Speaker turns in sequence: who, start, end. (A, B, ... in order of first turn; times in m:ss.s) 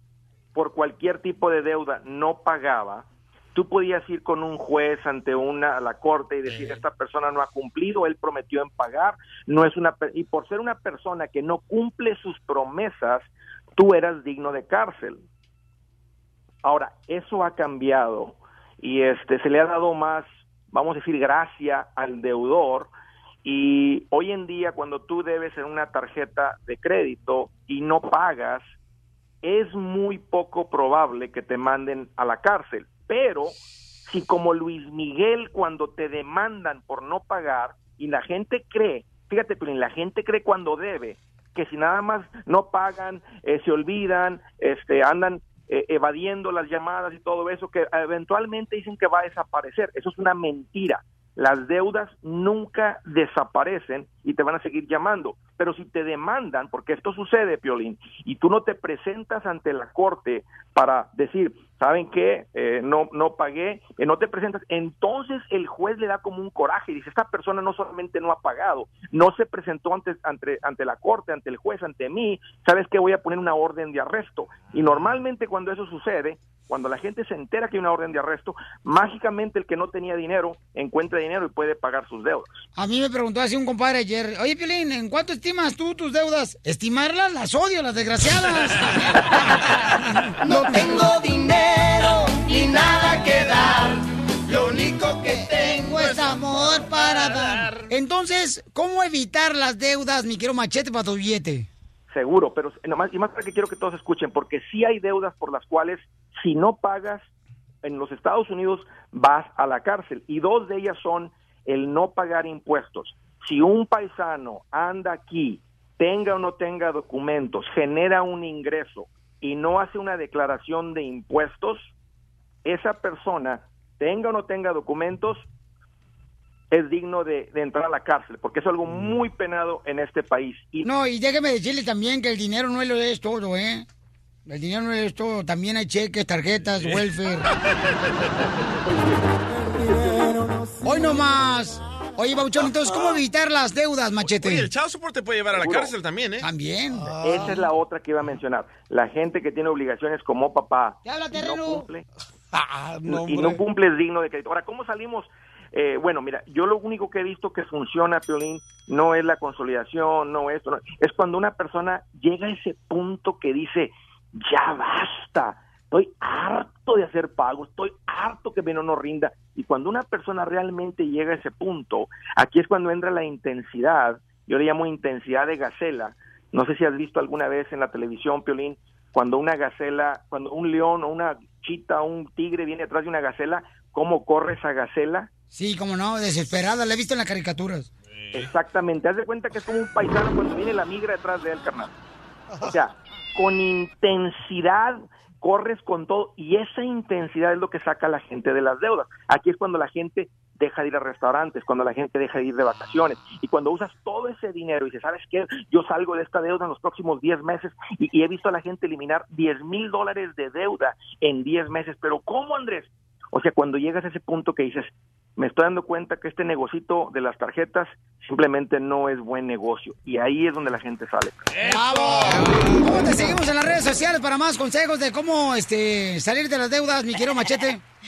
0:00.6-0:15.2 A
0:16.6-0:22.9 A
0:23.4-0:28.7 A
0:29.4-1:22.6 A
1:22.8-1:28.8 B
1:30.4-1:31.2 B
1:30.5-1:33.8 C
1:34.5-1:35.5 C
1:35.3-1:41.7 B
1:36.0-1:37.9 D
1:42.1-1:47.3 A
1:47.8-2:01.9 A
2:02.6-2:05.5 A
2:06.7-2:10.9 A
2:10.8-2:13.9 B
2:14.5-2:17.5 B
2:20.8-2:24.7 B
2:24.2-2:26.5 D
2:26.4-2:27.1 B
2:26.9-2:27.7 E
2:27.2-2:32.0 A
2:31.0-2:31.8 B
2:32.5-2:33.6 E
2:33.1-3:05.3 A
3:05.5-3:07.9 B
3:08.2-3:08.5 D
3:08.3-3:11.9 A
3:12.6-3:41.4 A
3:41.5-3:42.5 D
3:41.6-3:47.8 B
3:42.2-3:42.9 E